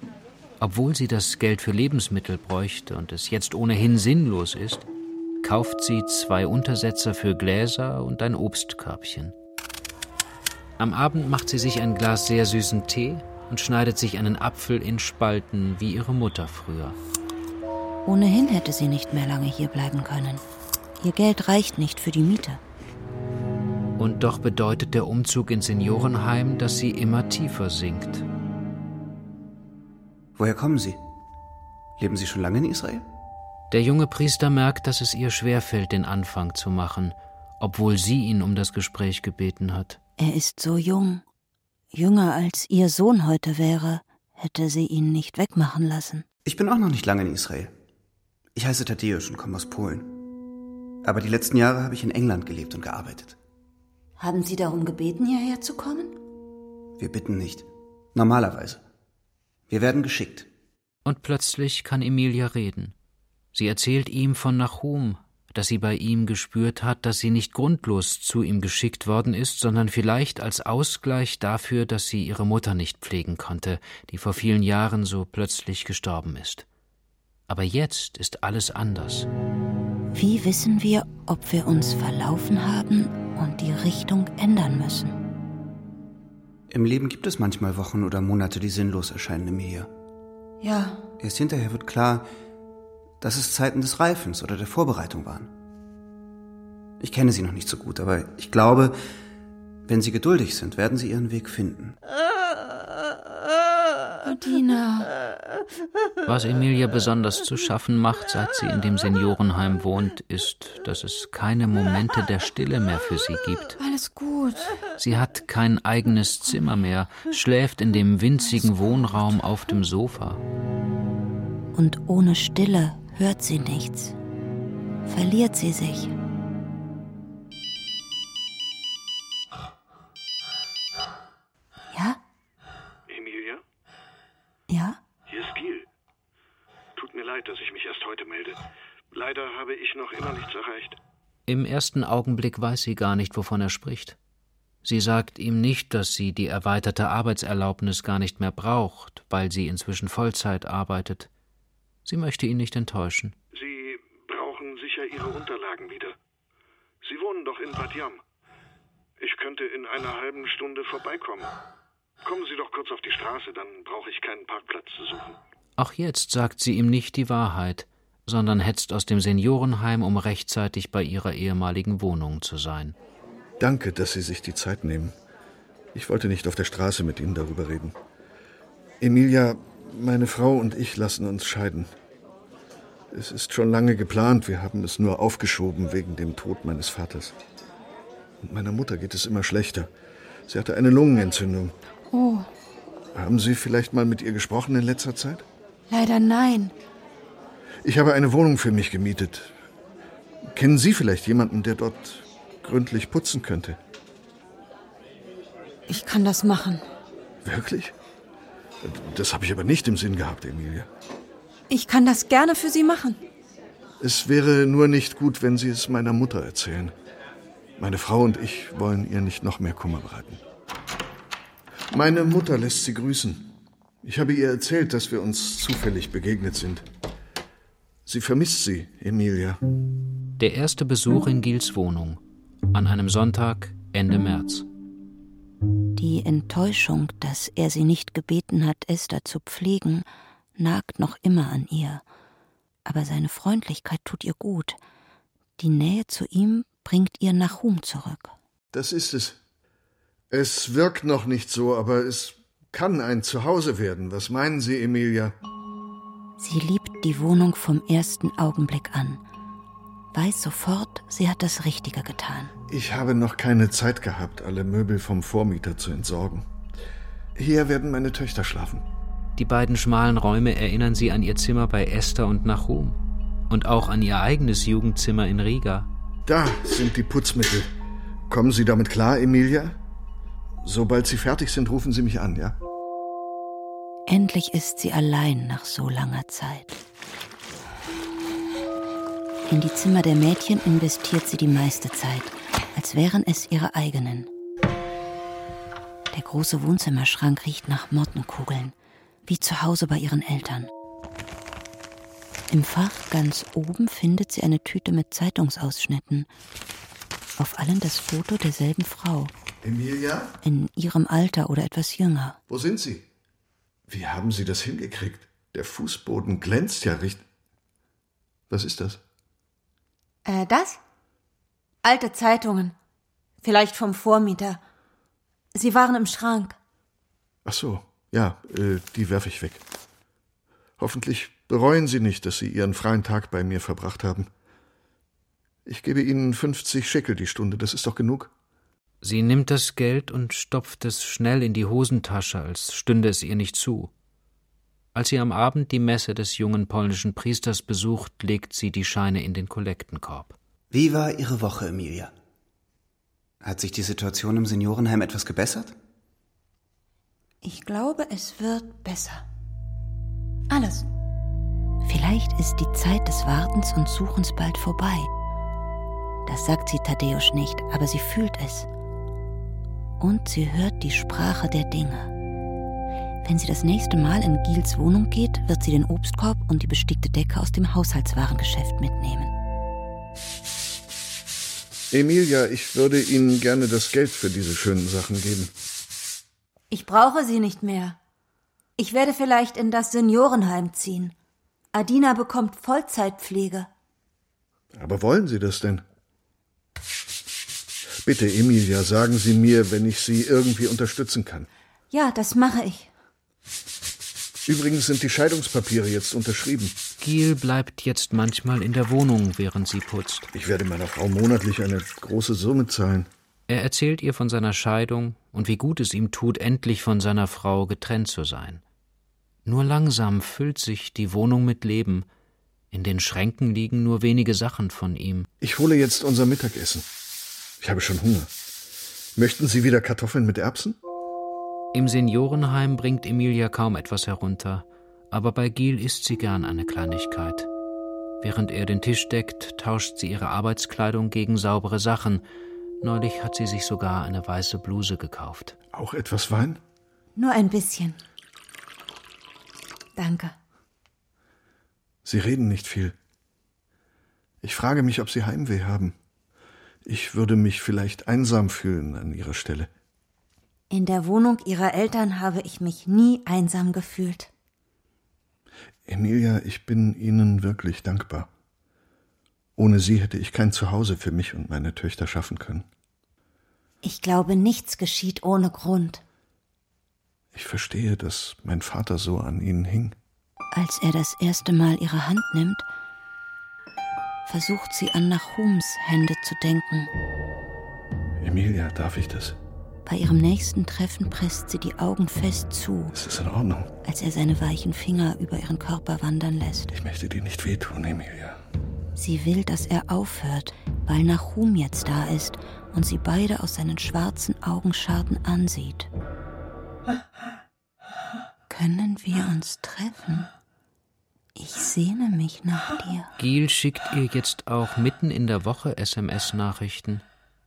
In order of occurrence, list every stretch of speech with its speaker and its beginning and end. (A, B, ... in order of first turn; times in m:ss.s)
0:00.6-0:04.8 A
0:05.4-0:09.3 A
0:10.8-0:17.0 A
0:18.0-0:20.4 B
0:21.0-0:22.6 B
0:24.0-0:28.3 A
0:30.4-0:31.0 C
0:32.0-0:33.0 C
0:33.7-0:40.0 A
0:40.2-0:41.2 B
0:41.9-0:46.2 B
0:46.4-0:47.7 C
0:48.5-0:50.2 C
0:51.0-0:53.4 C
0:54.2-0:56.1 B
0:57.0-0:58.8 C
0:59.7-1:00.5 C
1:01.0-1:02.9 A
1:03.5-1:16.6 A
1:17.5-1:19.3 A
1:20.1-1:25.2 B
1:26.7-1:29.9 C
1:30.6-1:31.0 B
1:31.2-1:32.2 C
1:33.2-1:35.5 C
1:37.0-1:39.0 C
1:39.8-1:42.0 C
1:44.2-1:45.1 B
1:46.2-1:53.8 A
1:53.8-1:54.6 B
1:55.0-2:00.4 A
2:01.7-2:04.2 B
2:05.1-2:06.1 B
2:11.9-2:12.2 B
2:13.1-2:13.6 D
2:14.7-2:15.0 B
2:15.3-2:15.9 D
2:17.0-2:21.0 D
2:21.5-2:24.2 A
2:24.8-2:31.3 A
2:32.0-2:33.4 A
2:33.5-2:36.2 D
2:37.0-2:38.2 D
2:39.2-2:41.6 D
2:42.2-2:45.4 D
2:45.8-2:53.0 A
2:53.6-2:55.1 E
2:55.9-2:57.9 E
2:59.0-3:01.9 E
3:03.1-3:07.4 E
3:08.4-3:09.9 E
3:10.5-3:11.8 E
3:12.1-3:12.5 B
3:13.1-3:15.4 E
3:15.9-3:16.7 B
3:17.8-3:19.6 E
3:20.4-3:23.8 E
3:25.9-3:26.8 B
3:27.4-3:27.9 E
3:28.8-3:30.9 E
3:31.7-3:33.2 B
3:34.0-3:36.9 E
3:37.8-3:40.4 E
3:41.9-3:43.5 E
3:44.0-3:46.8 E
3:48.0-3:49.6 E
3:50.4-3:52.2 A
3:52.7-3:54.6 A
3:56.0-4:00.0 B
4:00.6-4:02.0 B
4:02.8-4:04.8 B
4:05.6-4:08.3 B
4:08.7-4:09.4 E
4:10.3-4:15.4 E
4:16.4-4:19.2 B
4:20.1-4:22.5 B
4:22.7-4:26.4 E
4:27.4-4:28.8 E
4:29.4-4:33.0 A
4:33.5-4:35.9 A
4:36.3-4:37.7 E
4:38.3-4:39.8 E
4:40.6-4:42.6 E
4:44.1-4:46.8 B
4:49.5-4:54.3 B
4:56.1-4:58.7 B
4:59.3-5:00.7 B
5:02.5-5:06.3 B
5:07.4-5:09.3 B
5:09.6-5:10.3 E
5:10.4-5:12.4 B
5:12.5-5:13.0 E
5:13.9-5:17.2 E
5:18.5-5:19.0 E
5:20.2-5:20.8 B
5:21.8-5:22.7 B
5:23.4-5:24.6 B
5:25.5-5:26.6 B
5:27.4-5:29.6 E
5:30.8-5:34.3 E
5:35.6-5:38.3 E
5:39.0-5:43.9 A
5:44.9-5:50.4 A
5:50.7-5:52.1 C
5:53.4-5:55.7 C
5:57.4-5:59.2 B
6:00.5-6:00.8 B
6:01.8-6:05.1 B
6:06.2-6:08.7 B
6:10.0-6:12.1 B
6:13.2-6:19.3 B
6:21.9-6:25.5 E
6:26.7-6:28.0 B
6:28.8-6:31.1 B
6:31.7-6:33.7 B
6:34.7-6:35.8 E
6:38.0-6:41.5 E
6:41.9-6:42.9 B
6:44.4-6:46.8 E
6:47.0-6:50.3 A
6:50.3-6:53.1 E
6:53.5-6:58.6 A
6:59.4-7:02.1 A
7:02.7-7:05.3 A
7:05.4-7:06.8 E
7:07.6-7:08.3 E
7:09.2-7:10.8 E
7:11.7-7:17.5 A
7:18.2-7:22.2 A
7:22.8-7:25.5 A
7:25.7-7:26.6 E
7:27.2-7:28.0 B
7:30.0-7:30.3 B
7:32.0-7:33.0 E
7:34.4-7:35.9 E
7:36.8-7:39.7 E
7:40.7-7:44.3 B
7:45.8-7:48.3 E
7:49.6-7:52.6 E
7:53.8-7:56.0 B
7:57.3-7:59.9 E
8:00.5-8:02.6 B
8:04.2-8:06.9 B
8:08.2-8:09.4 E
8:09.8-8:12.9 B
8:12.9-8:13.7 E
8:13.8-8:16.7 B
8:16.7-8:18.4 E
8:19.0-8:25.9 B
8:28.5-8:30.3 B
8:31.4-8:33.1 B
8:33.2-8:37.0 A